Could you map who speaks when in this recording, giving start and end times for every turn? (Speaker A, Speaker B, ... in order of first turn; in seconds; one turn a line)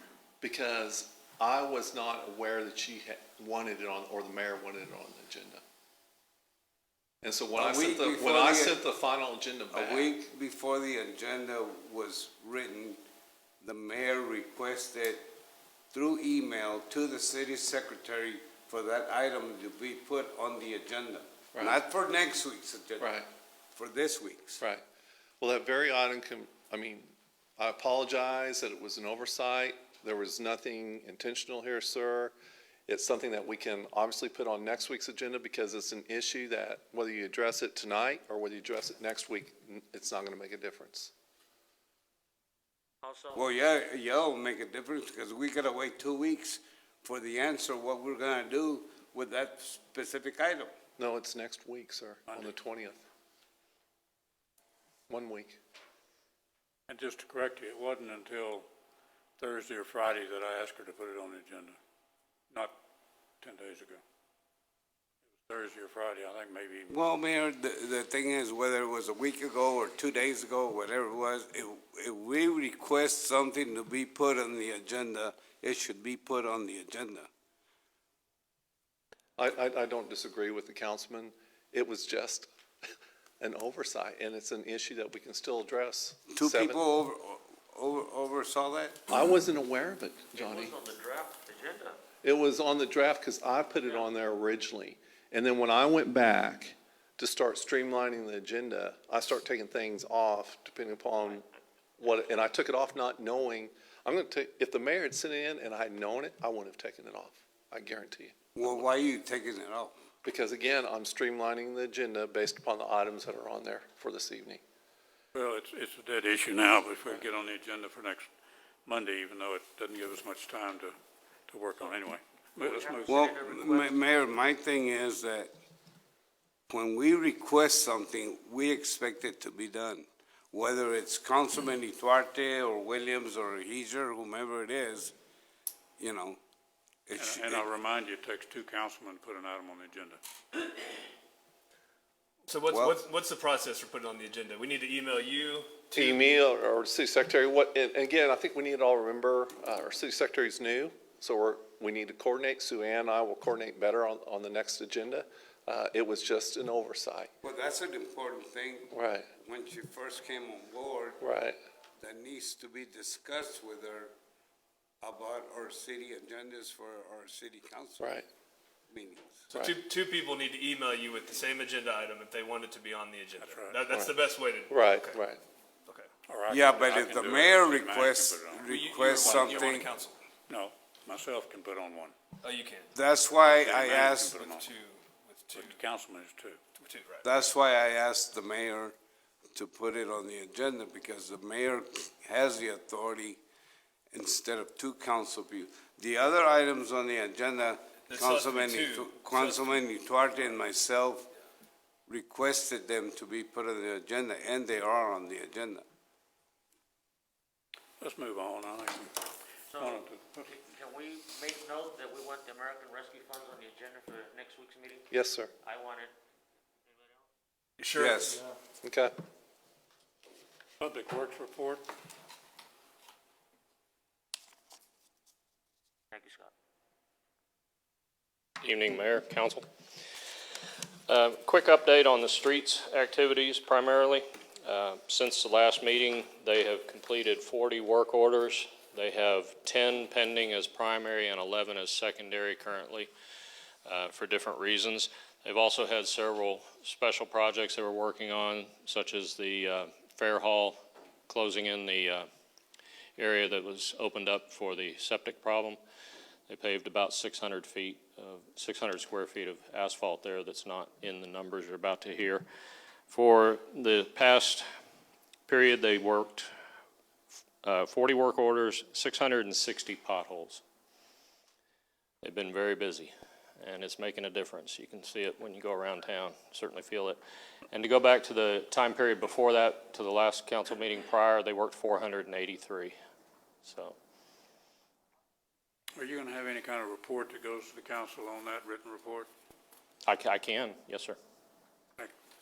Speaker A: 0.4-5.6
Speaker A: 7.2-10.2
Speaker B: 7.6-8.8
Speaker B: 9.7-13.0
Speaker B: 13.6-15.2
Speaker B: 15.9-23.1
Speaker A: 23.0-23.2
Speaker B: 23.8-24.6
Speaker A: 25.4-32.3
Speaker A: 32.9-41.1
Speaker C: 43.0-43.4
Speaker B: 43.3-50.7
Speaker A: 51.0-53.0
Speaker A: 55.1-55.6
Speaker D: 56.9-58.7
Speaker D: 59.4-61.8
Speaker D: 62.5-62.8
Speaker D: 63.4-64.0
Speaker D: 65.4-66.9
Speaker B: 66.9-77.3
Speaker A: 79.4-82.5
Speaker A: 83.4-86.8
Speaker B: 86.3-89.0
Speaker A: 89.1-90.8
Speaker C: 90.3-92.0
Speaker A: 92.2-101.5
Speaker A: 102.0-108.9
Speaker B: 108.6-109.9
Speaker A: 110.2-114.6
Speaker D: 115.3-118.3
Speaker D: 118.9-121.0
Speaker D: 121.5-123.1
Speaker C: 122.6-123.9
Speaker B: 123.1-125.5
Speaker B: 126.7-135.1
Speaker B: 136.0-136.4
Speaker B: 137.1-137.7
Speaker D: 137.2-140.2
Speaker E: 142.5-146.3
Speaker B: 142.7-143.0
Speaker A: 145.9-157.3
Speaker B: 157.4-161.2
Speaker A: 158.9-159.3
Speaker A: 161.2-161.6
Speaker B: 162.0-164.1
Speaker B: 165.0-168.1
Speaker A: 168.0-168.3
Speaker B: 168.9-169.4
Speaker E: 169.5-175.2
Speaker D: 173.4-173.8
Speaker A: 174.7-175.4
Speaker D: 176.3-179.8
Speaker B: 176.5-179.9
Speaker E: 178.7-180.2
Speaker D: 180.5-182.2
Speaker E: 182.4-182.9
Speaker B: 182.9-184.4
Speaker D: 183.5-184.7
Speaker E: 184.4-185.8
Speaker D: 185.5-186.6
Speaker E: 186.8-187.2
Speaker B: 187.2-188.9
Speaker B: 189.6-193.4
Speaker B: 194.1-201.3
Speaker E: 198.1-199.8
Speaker B: 202.1-205.8
Speaker D: 208.0-209.2
Speaker C: 209.7-215.1
Speaker D: 209.8-210.5
Speaker A: 215.1-215.5
Speaker C: 215.6-216.2
Speaker C: 216.9-217.3
Speaker E: 217.8-218.5
Speaker B: 217.9-218.4
Speaker A: 218.8-219.1
Speaker D: 220.8-221.8
Speaker C: 226.1-226.5
Speaker F: 228.6-229.6
Speaker F: 231.1-243.1
Speaker F: 243.9-250.8
Speaker F: 251.3-252.3
Speaker F: 253.2-255.8
Speaker F: 256.5-262.5
Speaker F: 263.1-264.6
Speaker F: 265.5-266.5
Speaker F: 267.6-270.6
Speaker F: 272.2-277.2
Speaker F: 277.7-282.9
Speaker F: 283.6-283.9
Speaker D: 286.0-289.3
Speaker F: 290.1-291.2